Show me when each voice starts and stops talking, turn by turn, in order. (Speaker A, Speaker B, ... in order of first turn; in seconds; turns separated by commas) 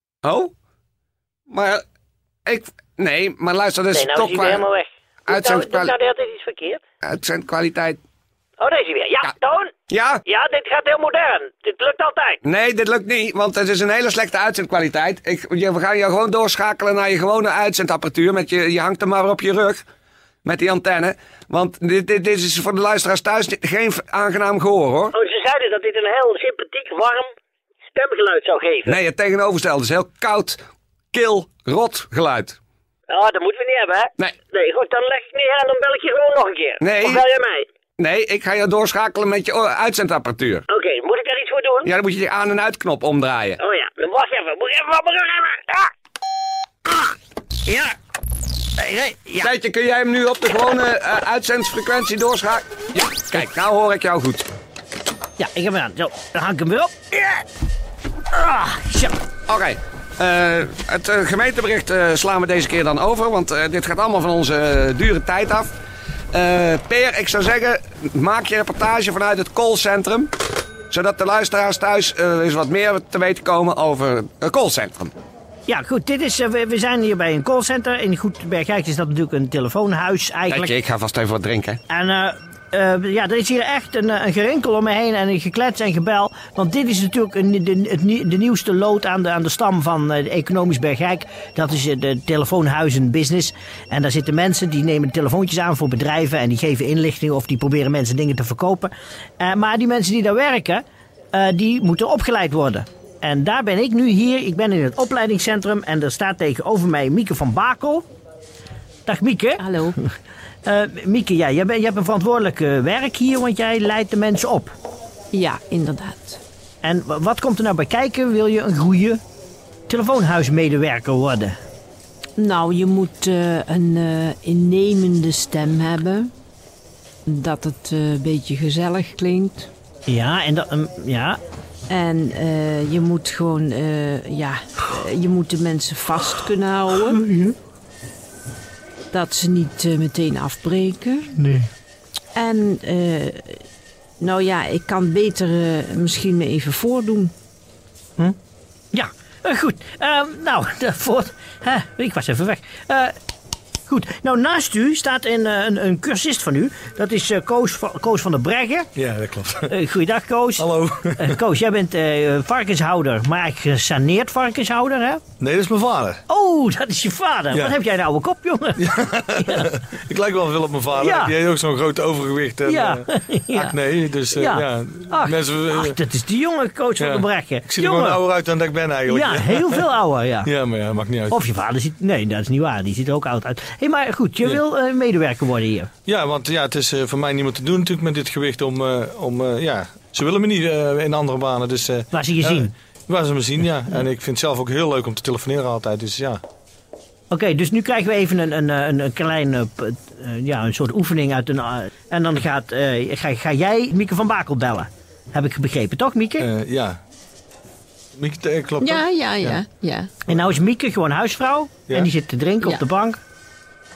Speaker A: 0.2-0.5, Speaker A: 1.5-1.8, Speaker A: 2.5-4.6, Speaker B: 3.9-6.8, Speaker A: 5.3-5.9, Speaker A: 7.0-8.0, Speaker B: 8.6-9.7, Speaker A: 9.9-10.2, Speaker B: 10.2-12.4, Speaker A: 12.4-19.8, Speaker A: 20.4-25.1, Speaker B: 25.1-27.3, Speaker B: 27.9-28.9, Speaker A: 28.8-30.6, Speaker A: 31.1-32.6, Speaker B: 33.1-37.6, Speaker A: 36.8-37.2, Speaker A: 38.0-40.6, Speaker B: 40.7-41.9, Speaker A: 41.8-43.6, Speaker B: 43.6-45.9, Speaker C: 47.7-47.9, Speaker C: 48.8-49.5, Speaker A: 49.4-54.5, Speaker C: 55.4-57.4, Speaker C: 58.3-59.1, Speaker A: 59.5-65.7, Speaker A: 66.3-70.3, Speaker A: 70.9-75.1, Speaker C: 75.7-80.7, Speaker A: 80.5-81.8, Speaker C: 81.9-108.0, Speaker C: 109.0-110.1, Speaker D: 109.6-109.9, Speaker C: 110.6-114.7, Speaker D: 115.3-116.4, Speaker C: 116.8-119.2, Speaker C: 119.9-121.6, Speaker D: 122.4-126.3, Speaker D: 127.2-129.7, Speaker C: 130.1-131.4, Speaker D: 131.9-137.2, Speaker C: 136.3-137.5, Speaker D: 139.1-141.4, Speaker C: 141.3-141.7, Speaker D: 142.3-143.6, Speaker D: 144.2-147.3, Speaker C: 148.9-153.1, Speaker C: 153.9-158.9, Speaker E: 158.9-159.7, Speaker C: 159.6-165.2, Speaker E: 160.6-161.4, Speaker E: 165.4-166.2, Speaker C: 166.3-169.8, Speaker E: 167.5-167.8, Speaker E: 168.8-176.0, Speaker C: 170.9-171.3, Speaker C: 172.6-173.8, Speaker C: 174.3-178.2, Speaker E: 177.0-179.8, Speaker C: 179.1-180.5, Speaker E: 180.4-181.4, Speaker C: 181.3-185.9, Speaker E: 186.1-196.4, Speaker C: 192.1-192.7, Speaker C: 197.3-206.5, Speaker E: 206.4-207.0, Speaker E: 208.1-209.6, Speaker D: 208.8-210.1, Speaker C: 210.2-213.2